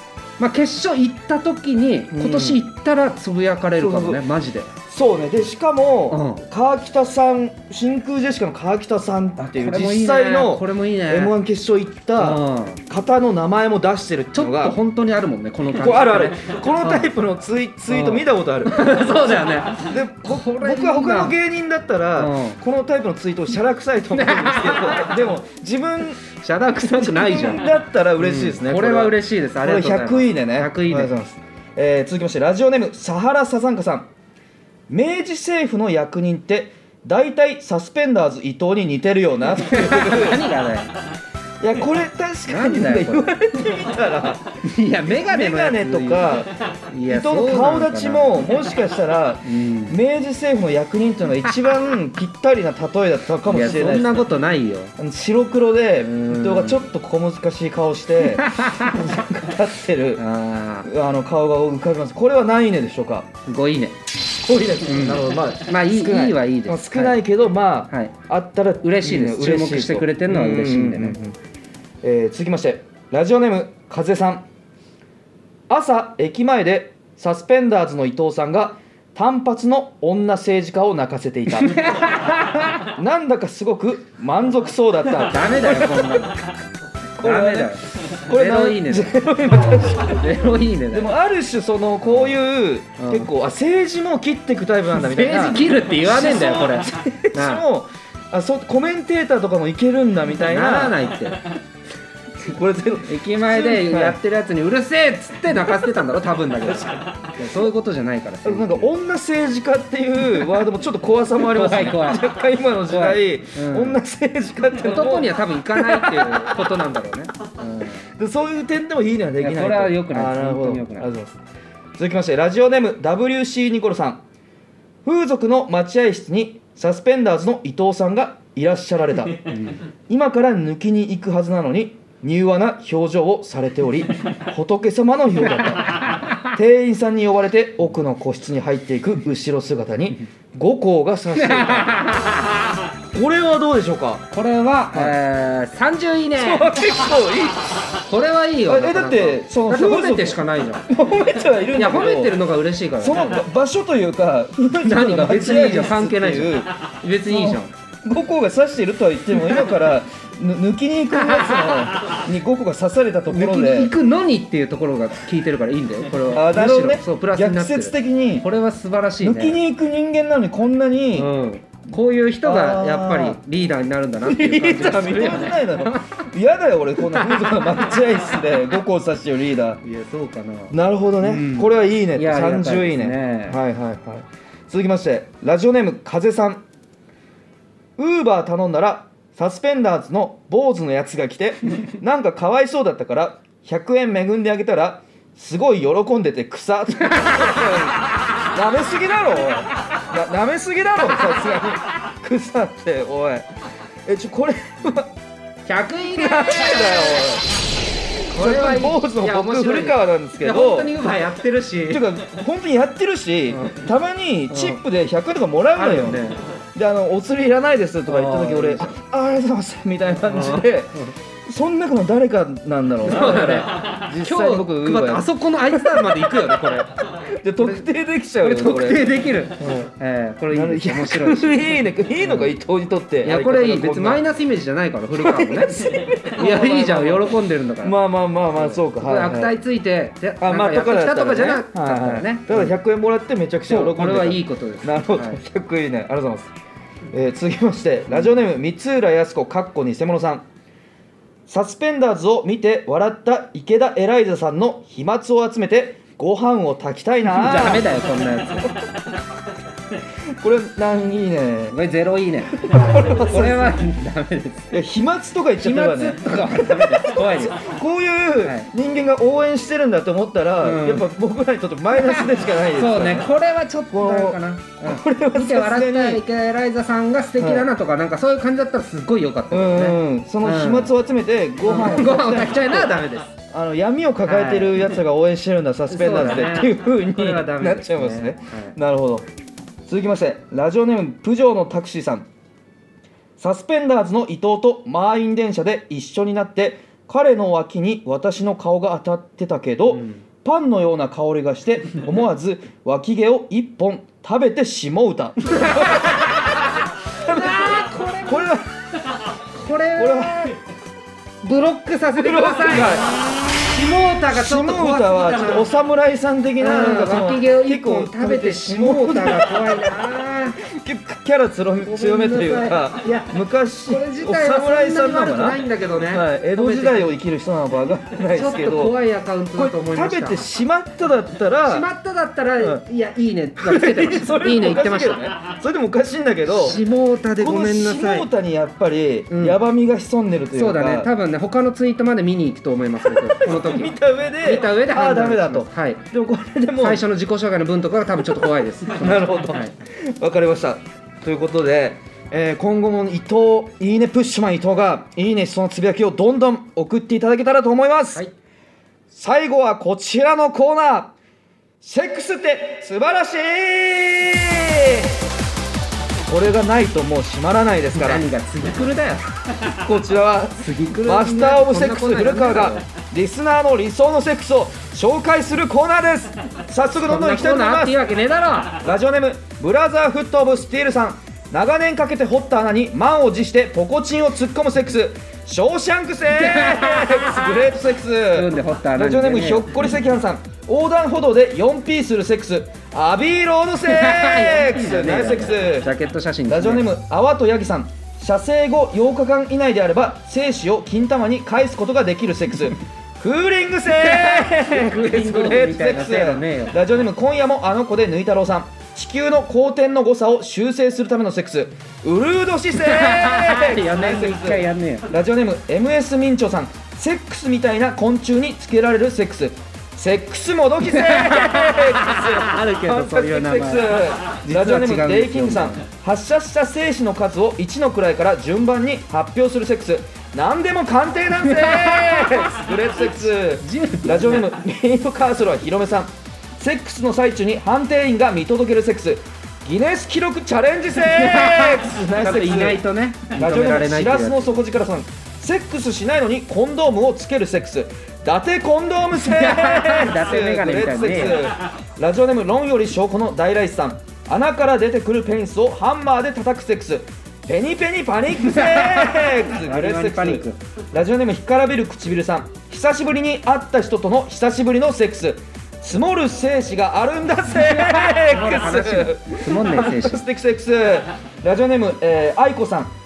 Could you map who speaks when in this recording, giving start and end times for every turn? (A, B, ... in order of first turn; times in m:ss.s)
0:00.4-0:04.7 A
0:02.1-0:02.6 B
0:03.8-0:04.2 B
0:04.9-0:14.8 B
0:06.1-0:06.4 A
0:09.4-0:11.3 A
0:12.2-0:12.8 A
0:14.4-0:17.1 A
0:15.7-0:26.2 B
0:17.9-0:21.4 A
0:22.2-0:22.6 A
0:24.1-0:25.2 A
0:26.2-0:31.1 A
0:26.8-0:34.1 B
0:34.9-0:40.4 B
0:39.6-0:41.0 A
0:41.6-0:46.5 B
0:42.5-0:43.3 A
0:44.6-0:48.8 A
0:47.1-0:54.3 B
0:49.4-0:50.0 A
0:53.4-0:54.9 A
0:55.0-1:00.2 B
0:56.0-0:56.8 A
0:58.2-0:59.2 A
1:00.2-1:00.9 A
1:00.8-1:03.3 B
1:03.5-1:04.0 A
1:04.4-1:11.4 B
1:04.8-1:07.2 A
1:08.8-1:11.2 A
1:12.0-1:14.4 B
1:15.7-1:22.1 B
1:21.5-1:23.0 A
1:22.8-1:26.4 B
1:25.1-1:26.5 A
1:27.2-1:30.4 B
1:27.2-1:29.3 A
1:29.8-1:31.1 A
1:30.9-1:41.0 B
1:32.0-1:32.4 A
1:33.0-1:33.3 A
1:34.9-1:37.6 A
1:40.4-1:41.6 A
1:42.4-1:44.2 B
1:43.0-1:48.9 A
1:48.4-1:56.5 B
1:51.4-1:52.2 A
1:52.9-1:54.0 A
1:54.7-1:58.1 A
1:58.2-2:01.4 B
1:59.4-2:01.1 A
2:02.0-2:04.2 B
2:05.0-2:22.1 B
2:09.5-2:09.8 A
2:15.7-2:16.4 A
2:21.3-2:22.9 A
2:23.1-2:24.2 B
2:24.3-2:27.0 A
2:26.4-2:28.0 B
2:28.0-2:30.9 A
2:28.7-2:32.4 B
2:31.7-2:33.4 A
2:33.0-2:36.7 B
2:34.8-2:37.7 A
2:37.3-2:43.9 B
2:39.4-2:39.7 A
2:41.1-2:42.2 A
2:43.3-2:49.6 A
2:46.3-2:48.5 B
2:49.2-2:51.3 B
2:51.1-2:56.0 A
2:52.4-2:53.4 B
2:54.2-2:59.8 B
2:57.0-2:58.1 A
2:59.8-3:03.6 A
3:00.7-3:06.6 B
3:08.0-3:23.5 B
3:17.2-3:17.7 A
3:24.0-3:25.1 B
3:25.7-3:27.3 A
3:26.2-3:27.5 B
3:28.3-3:30.9 B
3:28.3-3:32.0 A
3:31.9-3:36.2 B
3:33.5-3:33.8 A
3:34.5-3:34.8 A
3:35.8-3:36.4 A
3:36.8-3:45.3 B
3:38.0-3:38.9 A
3:40.2-3:41.1 A
3:43.0-3:47.0 A
3:47.2-3:49.1 B
3:47.6-3:47.9 A
3:48.4-3:52.6 A
3:49.6-3:49.9 B
3:50.5-3:54.2 B
3:53.2-3:58.0 A
3:55.2-3:59.6 B
3:58.5-4:02.8 A
4:00.4-4:06.5 B
4:03.7-4:05.4 A
4:07.1-4:10.4 B
4:11.5-4:17.9 B
4:17.2-4:18.8 A
4:20.4-4:21.8 B
4:21.7-4:24.8 A
4:22.5-4:23.8 B
4:24.7-4:33.3 B
4:25.6-4:27.7 A
4:28.4-4:28.7 A
4:30.6-4:31.1 A
4:31.9-4:40.9 A
4:33.9-4:36.2 B
4:37.4-4:37.7 B
4:39.5-4:43.0 B
4:41.6-4:43.4 A
4:43.5-4:49.3 B
4:44.2-4:44.9 A
4:45.9-4:48.8 A
4:49.9-4:52.2 B
4:53.4-5:08.7 B
4:59.9-5:00.2 A
5:05.5-5:08.5 A
5:09.4-5:10.6 A
5:10.0-5:10.5 B
5:11.4-5:15.7 A
5:12.2-5:13.2 B
5:14.3-5:19.9 B
5:16.6-5:20.6 A
5:20.6-5:29.0 B
5:21.8-5:27.1 A
5:28.3-5:30.4 A
5:29.5-5:31.9 B
5:31.6-5:35.4 A
5:33.6-5:36.8 B
5:36.5-5:38.3 A
5:37.4-5:41.1 B
5:39.3-5:39.6 A
5:40.5-5:46.0 A
5:43.1-5:47.0 B
5:46.8-5:49.7 A
5:49.0-5:58.2 B
5:59.1-6:01.1 B
6:01.8-6:05.2 B
6:06.3-6:08.2 B
6:07.9-6:09.2 A
6:09.6-6:18.0 B
6:10.6-6:12.8 A
6:17.0-6:18.9 A
6:18.8-6:35.9 B
6:26.4-6:27.6 A
6:28.3-6:29.9 A
6:33.8-6:36.9 A
6:36.5-7:52.9 B
6:43.9-6:46.8 A
6:52.8-6:55.1 A
7:00.8-7:05.8 A
7:11.4-7:14.5 A
7:21.0-7:24.5 A
7:29.2-7:31.5 A
7:38.4-7:40.6 A
7:47.8-7:50.2 A